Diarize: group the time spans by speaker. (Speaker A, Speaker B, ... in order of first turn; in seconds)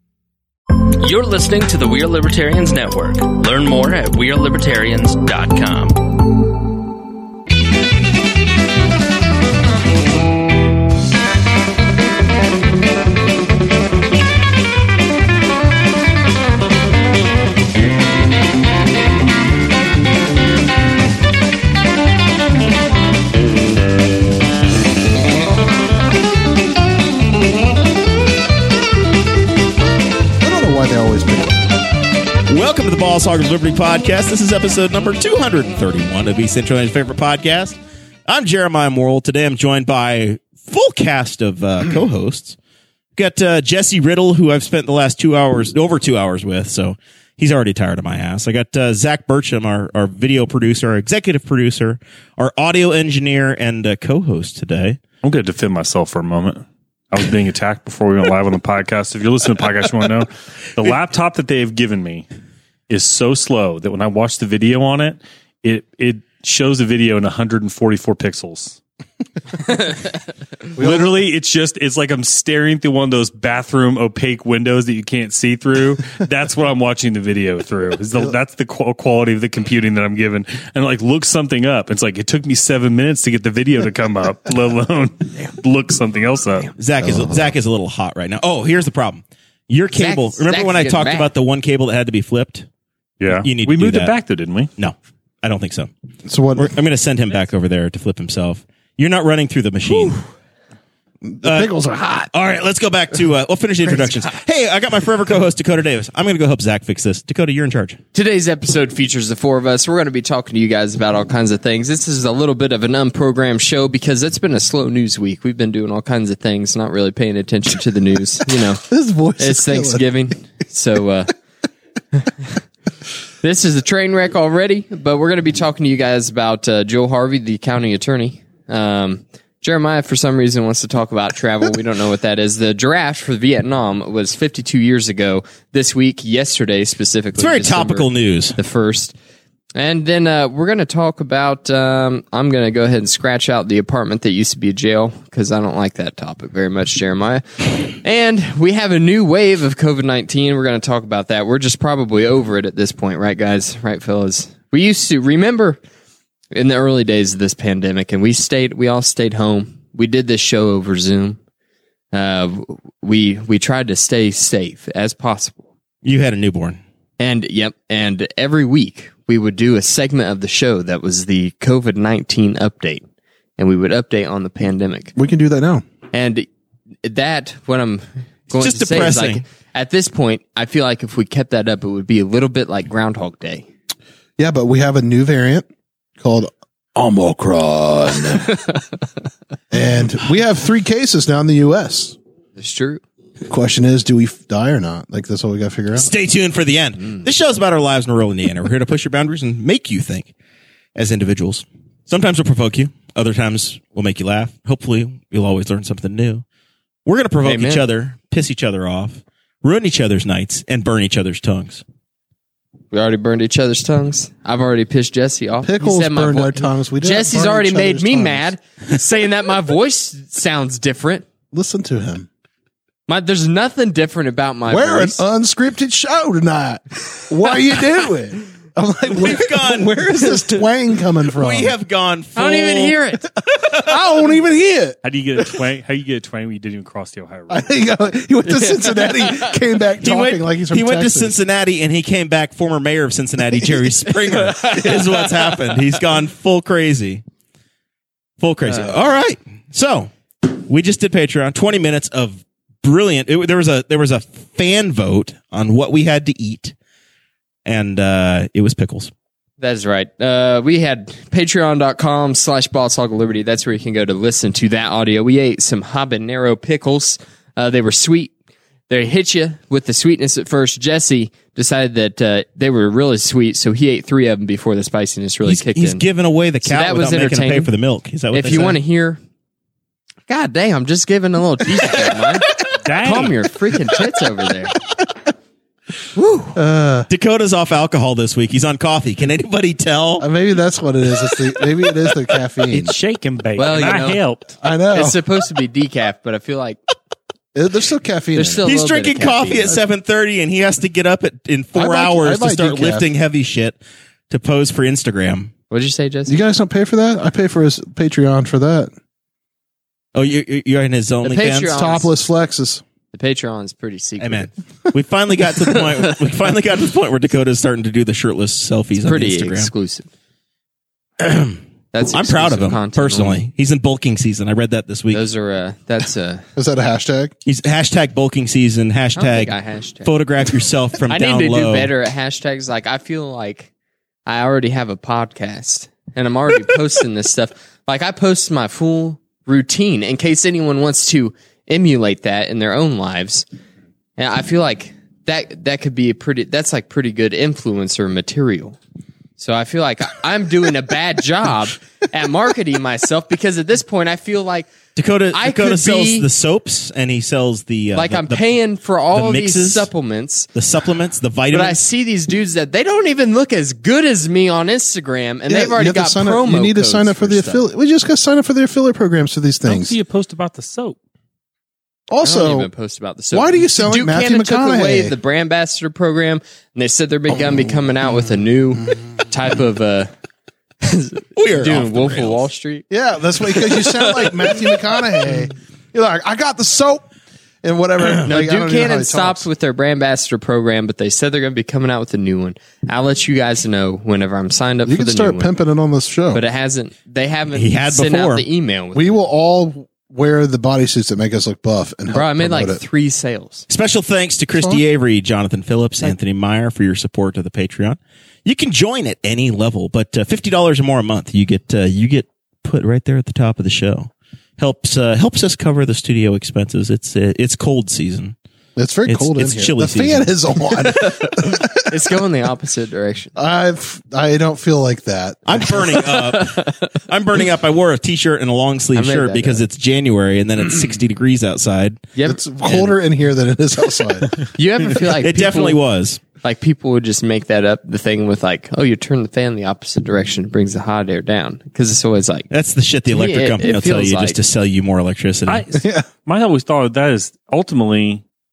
Speaker A: 0.8-6.1
Speaker B: 30.4-31.7, 70.8-71.2, 87.0-87.5, 96.2-96.8, 101.2-102.3, 118.8-120.2, 175.2-175.8, 184.4-185.7, 186.2-188.6, 189.7-192.2, 193.4-196.1, 215.6-218.5, 221.5-222.3, 224.7-231.7, 233.5-235.0, 237.5-241.4, 243.5-244.9, 286.6-287.1, 290.2-292.9, 294.6-295.2, 297.5-298.7, 301.8-303.1, 306.3-308.9, 311.7-312.8, 326.6-327.4, 365.5-370.0, 372.1-372.7, 373.3-375.1, 377.3-377.6, 382.9-387.0, 387.6-389.5, 394.9-396.4, 398.9-402.8, 404.6-404.8, 418.8-422.0, 423.4-426.0, 432.2-434.4, 445.7-446.1
Speaker C: 32.5-42.6, 43.2-55.0, 86.8-92.7, 93.4-94.1, 94.8-95.9, 96.6-100.2, 101.4-101.7, 102.3-108.0, 137.4-138.6, 166.0-166.8, 178.5-179.4, 195.9-200.3, 200.9-206.4, 207.1-211.8, 229.1-230.0, 231.3-233.0, 240.0-247.2, 248.4-256.7, 257.6-259.1, 275.4-278.8, 287.1-290.3, 298.6-303.8, 304.3-305.5, 310.1-311.8, 314.2-319.7, 321.2-321.6, 322.1-325.2, 327.5-331.9, 355.0-358.4, 359.1-359.9, 360.5-361.8, 381.4-382.4, 397.5-398.5, 403.7-418.4, 419.1-420.3, 425.5-432.1, 435.1-436.2, 442.5-445.7
Speaker D: 55.2-62.3, 62.9-68.8, 70.7-86.7, 93.2-94.7, 235.0-237.8, 282.7-283.4, 292.7-294.6, 369.6-371.0, 445.5-448.2
Speaker E: 89.9-91.3, 108.1-118.8, 119.4-121.3, 123.4-139.2, 139.8-155.8, 156.5-161.4, 162.1-165.6, 167.2-173.0, 173.6-175.1, 176.1-176.5, 177.0-183.7, 192.6-193.0, 207.4-207.9, 212.9-221.3, 223.1-225.2, 230.2-230.6, 232.3-233.3, 238.5-239.6, 244.7-245.2, 248.7-249.0, 259.6-268.3, 268.9-276.0, 276.6-277.7, 278.3-279.2, 280.3-284.8, 286.2-286.5, 293.6-294.2, 294.9-296.8, 298.4-299.8, 305.7-306.4, 311.2-312.1, 313.1-314.5, 319.0-320.1, 321.9-323.4, 325.1-326.5, 329.2-330.1, 331.1-333.7, 334.3-343.5, 344.2-348.8, 349.4-354.7, 355.3-356.3, 357.9-360.5, 361.5-367.6, 372.2-380.1, 380.8-382.9, 383.4-384.7, 388.2-395.5, 396.3-399.2, 402.1-403.7, 420.8-423.4, 425.9-426.9, 428.9-429.6, 432.1-432.9, 434.5-435.8, 436.4-442.5, 443.1-444.4